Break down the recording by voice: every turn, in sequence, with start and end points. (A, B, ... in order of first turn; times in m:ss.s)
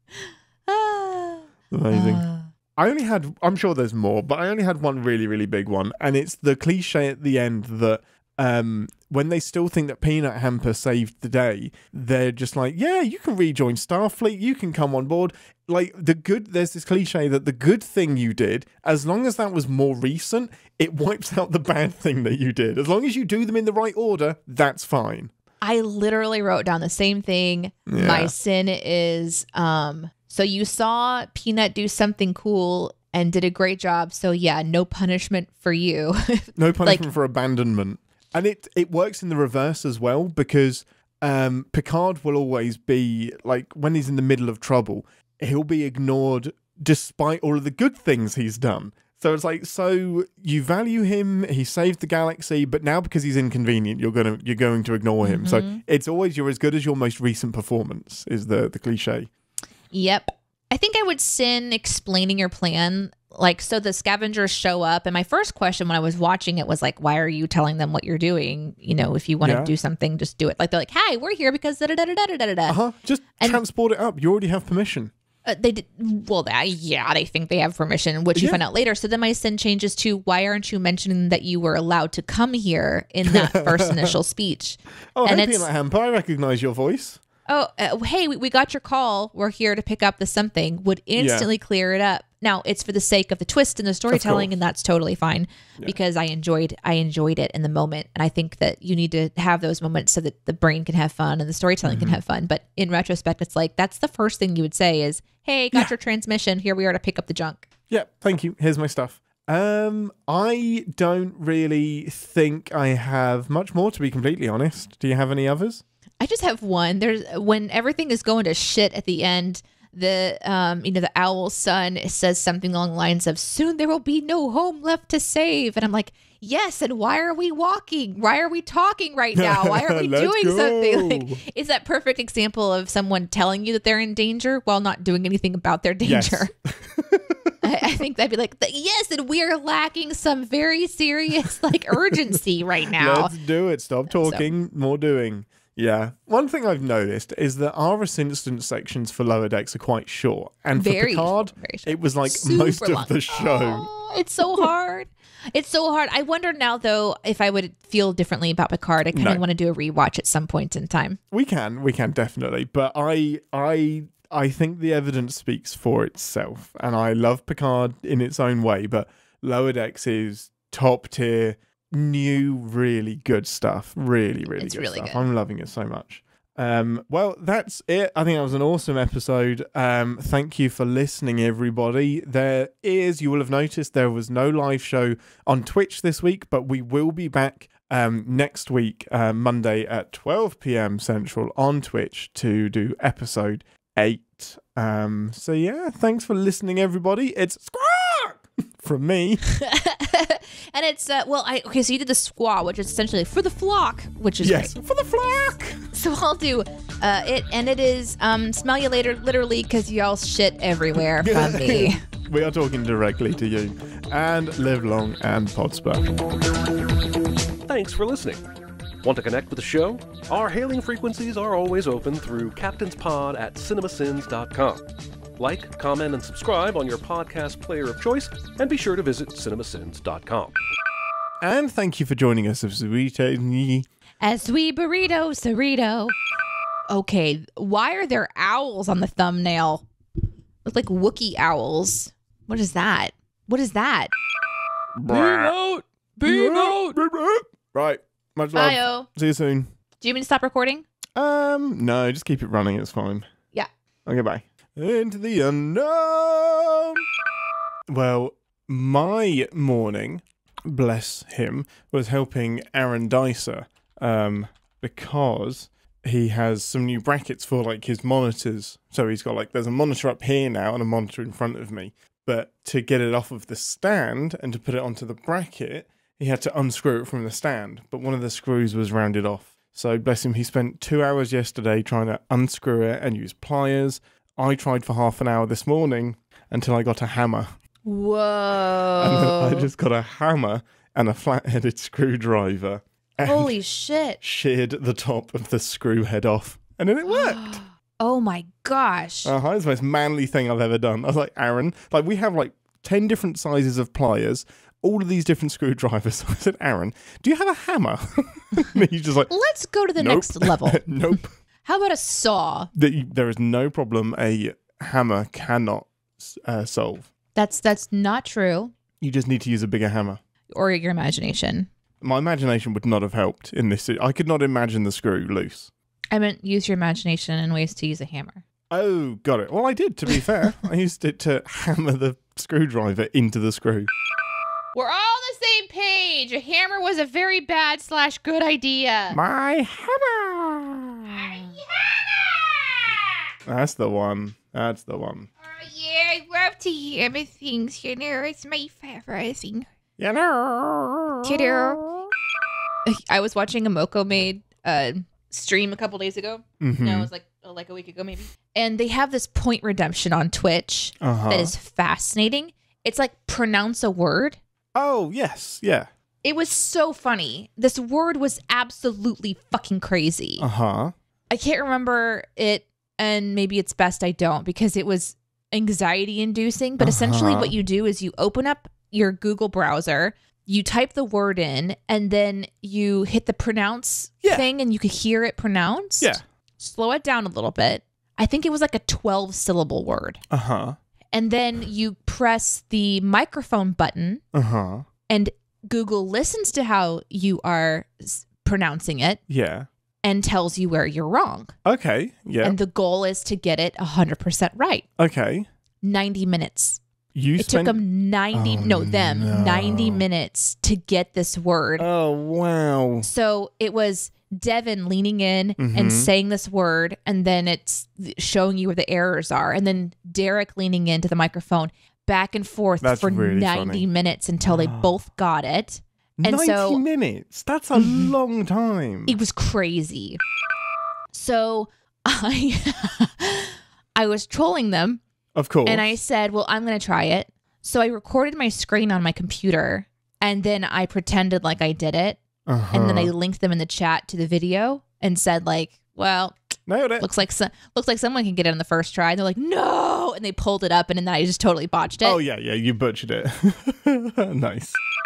0:00.2-0:02.5 A
0:01.7-0:25.3 B
0:25.6-0:37.1 A
0:27.9-0:28.3 B
0:36.5-0:59.3 B
0:55.2-0:55.8 A
0:59.9-1:12.8 A
1:09.4-1:09.7 B
1:12.7-1:15.1 B
1:15.4-1:25.7 A
1:18.3-1:18.6 B
1:23.2-1:24.2 B
1:25.1-1:27.2 B
1:27.5-1:47.6 A
1:31.2-1:31.5 B
1:34.1-1:34.5 B
1:41.8-1:42.2 B
1:47.9-1:55.8 B
1:56.2-2:16.5 A
2:09.3-2:11.4 B
2:16.0-2:17.5 B
2:17.6-2:23.3 A
2:23.0-2:33.9 B
2:24.1-2:24.4 A
2:30.7-2:41.2 A
2:39.1-2:39.4 B
2:41.3-3:19.4 B
2:54.5-2:55.2 A
3:19.5-3:24.7 A
3:24.4-3:25.9 B
3:25.9-3:32.0 A
3:31.0-3:36.1 B
3:37.7-3:38.4 C
3:39.0-3:44.8 C
3:45.4-3:50.5 C
3:51.4-3:53.9 B
3:54.2-3:56.1 A
3:56.9-3:59.8 A
4:00.6-4:04.1 A
4:05.0-4:05.6 B
4:05.1-4:07.0 A
4:06.2-4:09.7 B
4:08.5-4:09.1 A
4:10.0-4:10.8 A
4:11.2-4:13.3 B
4:14.0-4:17.0 B
4:17.9-4:47.6 B
4:47.8-4:49.7 A
4:49.0-4:53.5 B
4:53.2-4:54.2 A
4:54.2-4:57.6 B
4:57.1-4:59.3 A
4:59.2-5:09.3 B
5:09.3-5:10.9 A
5:10.0-5:11.3 B
5:11.6-5:12.7 A
5:12.7-5:17.1 B
5:17.3-5:18.7 A
5:19.0-5:20.2 B
5:20.5-5:21.7 A
5:22.0-5:25.7 B
5:26.1-5:28.4 A
5:28.7-5:33.9 B
5:34.7-5:39.2 A
5:39.1-5:41.3 B
5:41.1-5:43.0 A
5:43.4-5:45.3 B
5:45.4-5:49.7 A
5:50.0-5:52.1 B
5:51.2-5:51.8 A
5:52.8-6:04.4 A
5:56.6-5:57.1 B
6:01.0-6:01.5 B
6:04.7-6:05.9 B
6:06.2-6:10.4 A
6:10.4-6:10.9 B
6:11.3-6:30.2 A
6:16.8-6:17.6 B
6:30.3-6:30.8 B
6:31.1-6:34.2 A
6:34.3-6:34.8 B
6:35.1-6:39.2 A
6:39.3-6:39.7 B
6:40.0-6:41.5 A
6:41.6-6:42.6 B
6:42.4-6:44.8 A
6:45.0-6:45.5 B
6:45.8-6:46.8 A
6:47.1-6:47.8 B
6:47.4-6:51.9 A
6:48.3-6:50.0 B
6:51.8-6:53.1 B
6:53.0-7:06.8 A
6:55.6-6:56.1 B
7:02.8-7:03.9 B
7:04.4-7:04.9 B
7:06.2-7:09.2 B
7:07.7-7:08.1 A
7:09.0-7:10.2 A
7:11.1-7:15.0 A
7:15.3-7:16.0 B
7:15.6-7:26.4 A
7:22.4-7:23.1 B
7:26.7-7:27.1 B
7:27.0-7:32.2 A
7:32.0-7:34.8 B